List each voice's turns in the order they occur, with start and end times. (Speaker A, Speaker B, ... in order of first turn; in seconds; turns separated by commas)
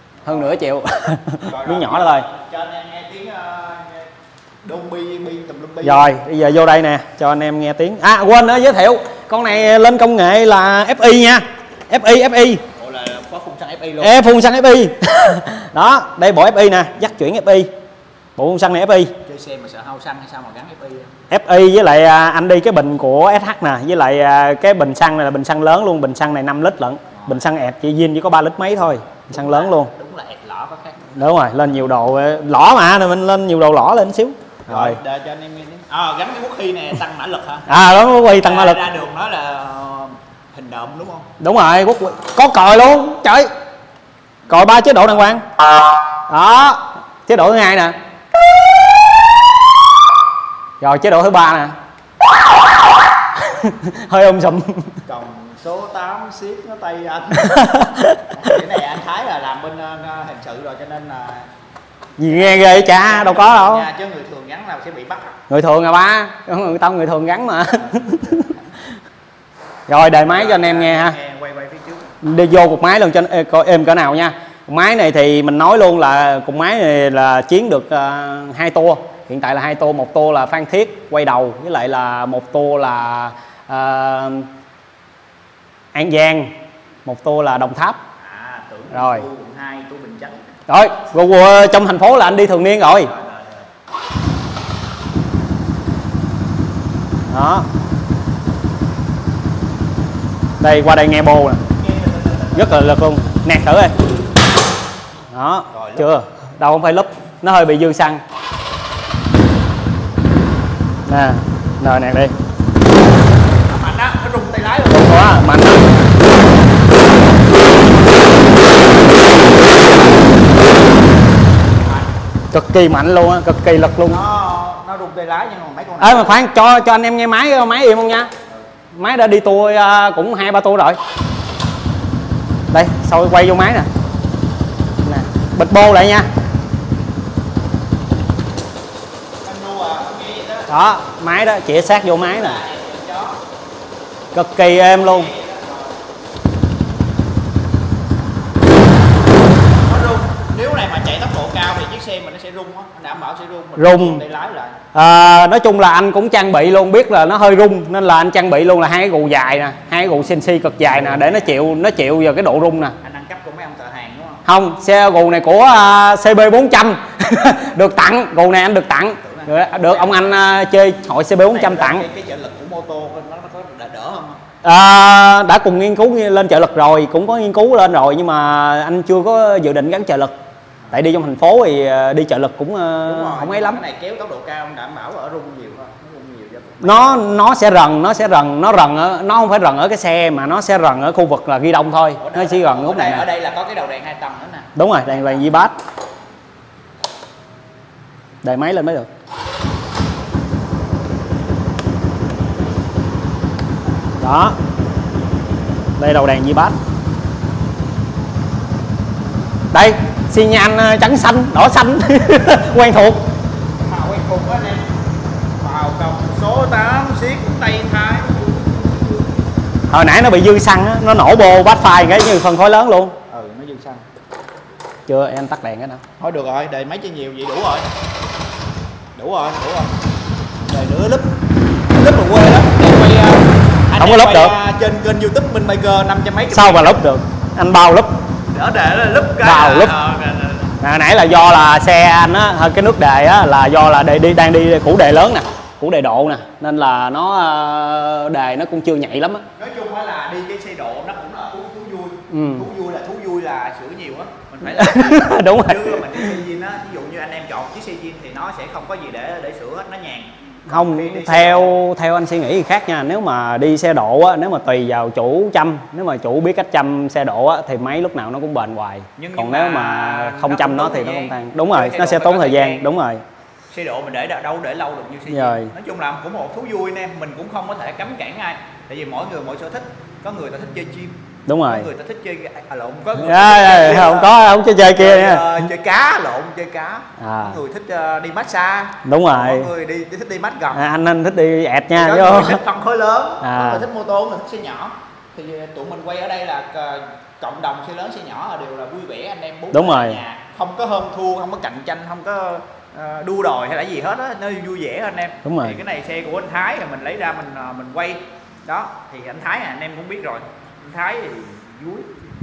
Speaker A: 0.2-0.6, Speaker B: 0.2-2.2, Speaker A: 1.5-4.1, Speaker A: 4.6-6.2, Speaker B: 5.8-12.6, Speaker A: 12.8-14.2, Speaker B: 14.0-17.7, Speaker B: 18.4-19.1, Speaker A: 19.2-21.1, Speaker B: 21.3-29.9, Speaker A: 27.1-27.5, Speaker A: 29.3-31.0, Speaker B: 31.1-35.0, Speaker A: 34.7-37.7, Speaker B: 37.7-38.8, Speaker A: 38.4-41.3, Speaker B: 41.4-43.5, Speaker A: 44.5-45.1, Speaker B: 44.5-45.4, Speaker B: 46.3-47.9, Speaker B: 50.8-51.8, Speaker B: 53.4-54.9, Speaker A: 55.1-57.6, Speaker B: 57.3-58.6, Speaker A: 58.3-61.5, Speaker B: 62.2-63.9, Speaker A: 62.3-65.4, Speaker B: 65.5-68.5, Speaker A: 67.9-68.6, Speaker B: 69.9-71.2, Speaker A: 70.2-72.1, Speaker B: 72.2-84.5, Speaker B: 85.9-86.5, Speaker B: 87.0-88.0, Speaker A: 88.2-90.5, Speaker B: 88.9-89.2, Speaker B: 90.7-93.1, Speaker A: 92.8-93.7, Speaker B: 97.3-97.7, Speaker B: 100.6-101.6, Speaker A: 101.7-102.8, Speaker B: 102.6-103.9, Speaker B: 105.3-108.2, Speaker A: 105.7-106.1, Speaker B: 111.1-112.3, Speaker A: 113.6-115.4, Speaker B: 114.9-116.0, Speaker A: 121.8-122.1, Speaker B: 122.5-124.2, Speaker A: 124.1-126.4, Speaker B: 126.0-128.3, Speaker B: 128.9-131.0, Speaker B: 132.7-133.9, Speaker B: 135.0-136.3, Speaker A: 139.4-140.7, Speaker B: 140.7-142.6, Speaker A: 142.1-143.4, Speaker B: 144.3-145.3, Speaker A: 144.8-146.0, Speaker A: 149.8-154.8, Speaker B: 153.8-154.2, Speaker B: 154.9-162.9, Speaker A: 160.9-161.5, Speaker A: 163.0-164.4, Speaker B: 164.4-172.1, Speaker A: 169.2-170.3, Speaker A: 171.5-174.4, Speaker B: 174.6-180.3, Speaker B: 180.9-183.8, Speaker A: 183.1-187.2, Speaker B: 186.8-193.3, Speaker A: 192.2-195.5, Speaker B: 194.8-195.8, Speaker B: 198.4-199.1, Speaker B: 204.2-204.6, Speaker B: 206.0-206.8, Speaker B: 209.7-213.2, Speaker A: 213.8-214.9, Speaker A: 215.6-219.3, Speaker B: 219.9-223.2, Speaker A: 223.3-224.0, Speaker B: 225.1-226.0, Speaker A: 226.2-227.9, Speaker A: 229.2-229.9, Speaker A: 230.7-231.3, Speaker A: 231.9-237.0, Speaker B: 234.0-234.6, Speaker B: 236.5-238.1, Speaker A: 238.5-240.8, Speaker B: 239.4-239.9, Speaker B: 240.8-249.4, Speaker A: 249.6-261.8, Speaker B: 252.3-252.7, Speaker B: 254.7-256.3, Speaker B: 260.7-273.2, Speaker A: 269.2-272.8, Speaker A: 273.7-281.1, Speaker B: 275.3-275.7, Speaker B: 281.5-281.9, Speaker A: 281.7-284.3, Speaker B: 283.2-285.6, Speaker A: 284.9-290.8, Speaker B: 287.2-287.6, Speaker B: 289.1-289.7, Speaker B: 290.8-292.6, Speaker A: 291.9-312.2, Speaker B: 293.4-293.9, Speaker B: 299.7-300.2, Speaker B: 305.4-305.8